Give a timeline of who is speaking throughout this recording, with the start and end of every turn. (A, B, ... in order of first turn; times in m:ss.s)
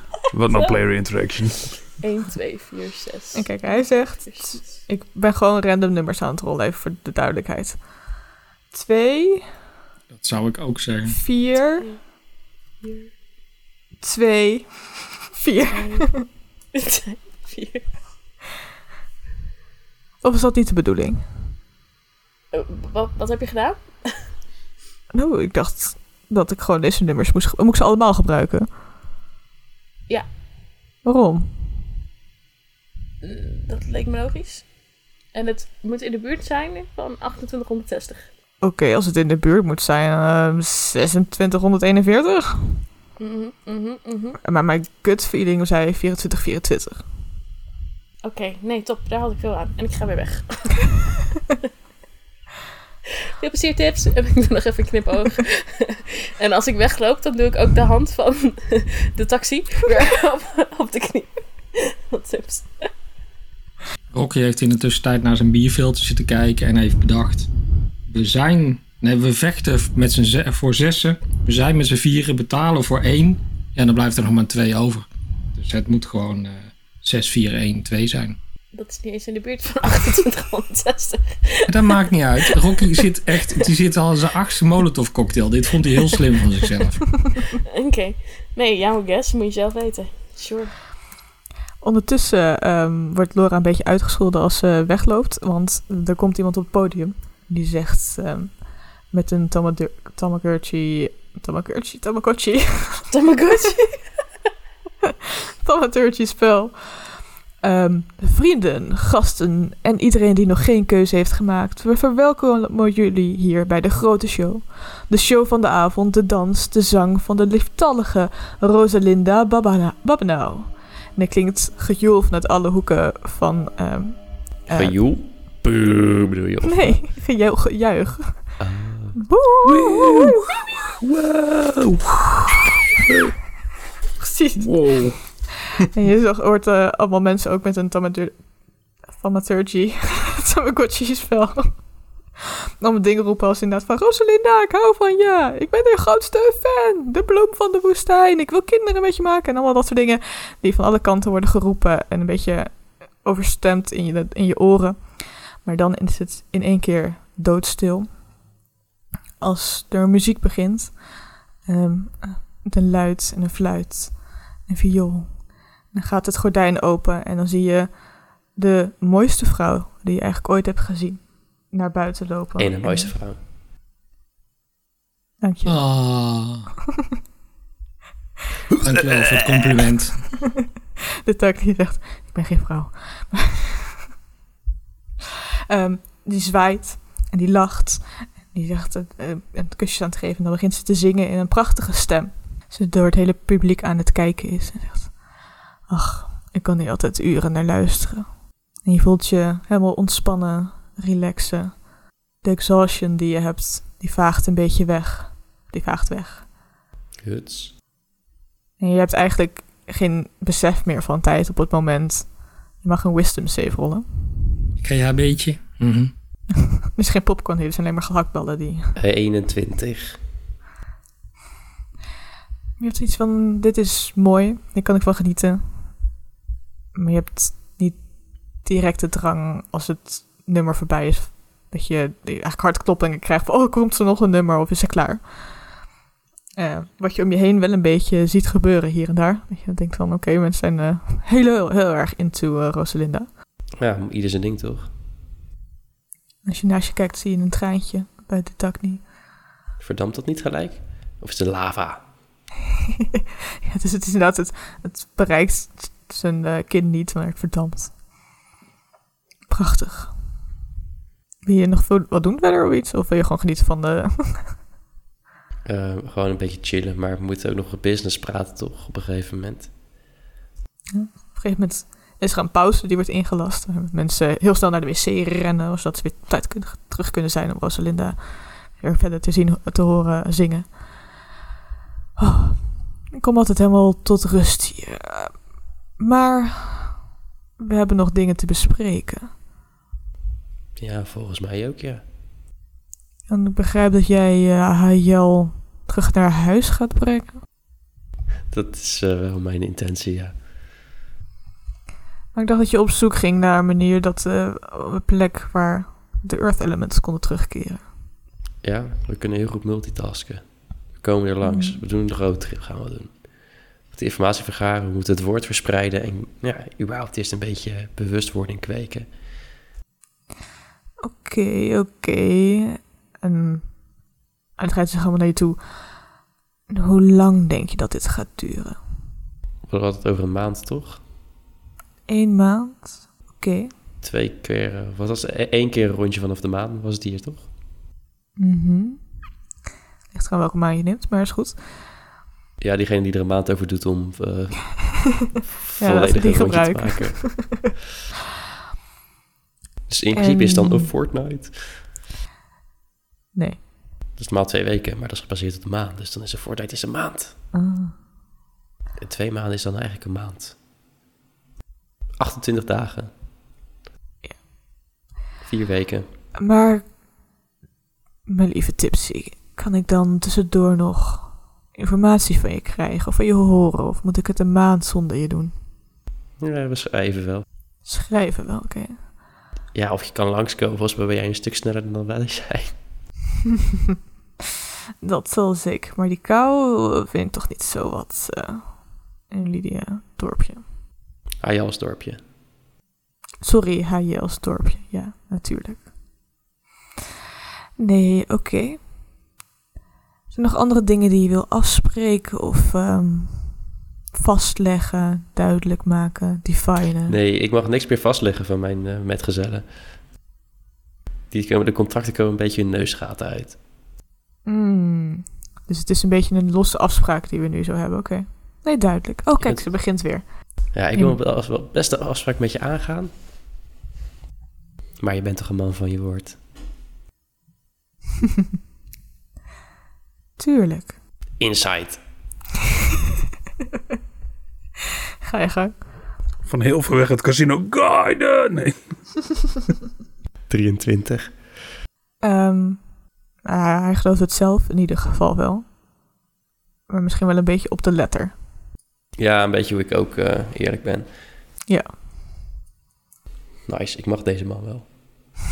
0:00.3-0:01.8 A
0:00.5-0:00.8 B
0:01.9-0:04.7 B
0:03.4-0:07.8 C
0:08.7-0:09.5 C
0:10.1-0:11.2 D
0:11.1-0:11.9 C
0:12.8-0:13.1 B
0:14.0-0:16.3 C
0:15.7-0:16.2 B
0:16.7-0:17.9 B
0:20.2-0:21.3 C
0:22.5-0:24.2 B
0:25.1-0:28.7 C
0:31.0-0:31.5 C
0:33.2-0:34.7 B
0:35.3-0:38.3 B
0:38.6-0:42.9 C
0:43.2-0:44.4 B
0:44.4-0:47.0 C
0:48.2-0:50.9 B
0:53.4-1:02.9 B
1:04.1-1:07.5 D
1:08.1-1:18.4 D
1:18.7-1:23.0 B
1:21.7-1:27.2 D
1:27.7-1:30.7 B
1:31.8-1:43.1 C
1:43.1-1:44.0 B
1:45.6-2:05.0 C
2:04.7-2:07.0 E
2:06.6-2:08.6 C
2:08.6-2:09.2 E
2:09.2-2:10.4 C
2:09.6-2:12.8 A
2:14.2-2:15.4 C
2:14.6-2:15.5 A
2:15.9-2:18.5 C
2:19.0-2:21.8 C
2:22.8-2:38.2 C
2:39.4-2:53.1 C
2:52.6-2:53.4 E
2:55.4-2:55.9 C
2:55.6-2:56.7 D
2:58.8-3:00.3 D
3:01.2-3:04.0 C
3:05.7-3:15.2 C
3:15.9-3:21.9 C
3:22.4-3:26.5 C
3:27.2-3:27.7 E
3:28.8-3:34.4 C
3:34.8-3:36.1 D
3:36.9-3:39.0 C
3:39.0-3:40.2 E
3:42.8-3:46.0 C
3:47.0-3:55.6 C
3:56.6-4:03.3 C
4:03.8-4:04.9 E
4:06.4-4:09.0 C
4:09.8-4:12.0 E
4:13.1-4:18.0 C
4:19.5-4:20.1 C
4:21.4-4:24.6 C
4:25.7-4:29.7 E
4:30.9-4:41.1 C
4:42.2-4:45.4 C
4:46.0-4:47.0 C
4:47.6-4:49.3 C
4:50.8-4:52.0 E
4:53.3-4:57.4 C
4:58.5-5:00.4 E
5:02.3-5:07.9 C
5:08.6-5:13.3 E
5:11.4-5:11.8 C
5:13.9-5:19.1 E
5:21.0-5:23.8 C
5:24.6-5:25.6 C
5:26.7-5:28.8 C
5:29.7-5:31.0 E
5:32.1-5:33.7 C
5:34.0-5:37.5 E
5:38.4-5:39.0 C
5:40.1-5:41.6 C
5:42.6-5:47.8 E
5:45.8-5:47.6 C
5:49.9-5:51.8 E
5:50.1-5:50.9 C
5:53.4-5:53.6 C
5:54.2-5:57.4 E
5:57.5-5:58.0 C
5:59.0-6:00.6 E
6:02.2-6:03.1 E
6:05.4-6:06.0 E
6:06.4-6:06.9 C
6:08.3-6:15.5 C
6:16.4-6:17.4 E
6:17.9-6:19.0 C
6:19.7-6:22.7 E
6:25.0-6:30.6 C
6:31.4-6:32.2 E
6:33.4-6:35.9 C
6:37.8-6:38.8 C
6:40.3-6:47.2 C
6:47.1-6:49.7 E
6:51.3-6:53.6 E
6:54.4-7:01.2 C
6:59.4-6:59.7 E
7:00.7-7:03.1 E
7:05.0-7:06.4 E
7:10.4-7:11.0 C
7:11.4-7:12.0 E
7:15.2-7:15.9 C
7:16.4-7:18.8 A
7:20.5-7:21.4 E
7:22.2-7:22.9 C
7:23.4-7:25.6 C
7:26.9-7:28.4 C
7:29.2-7:31.1 E
7:31.7-7:31.9 C
7:33.7-7:34.9 E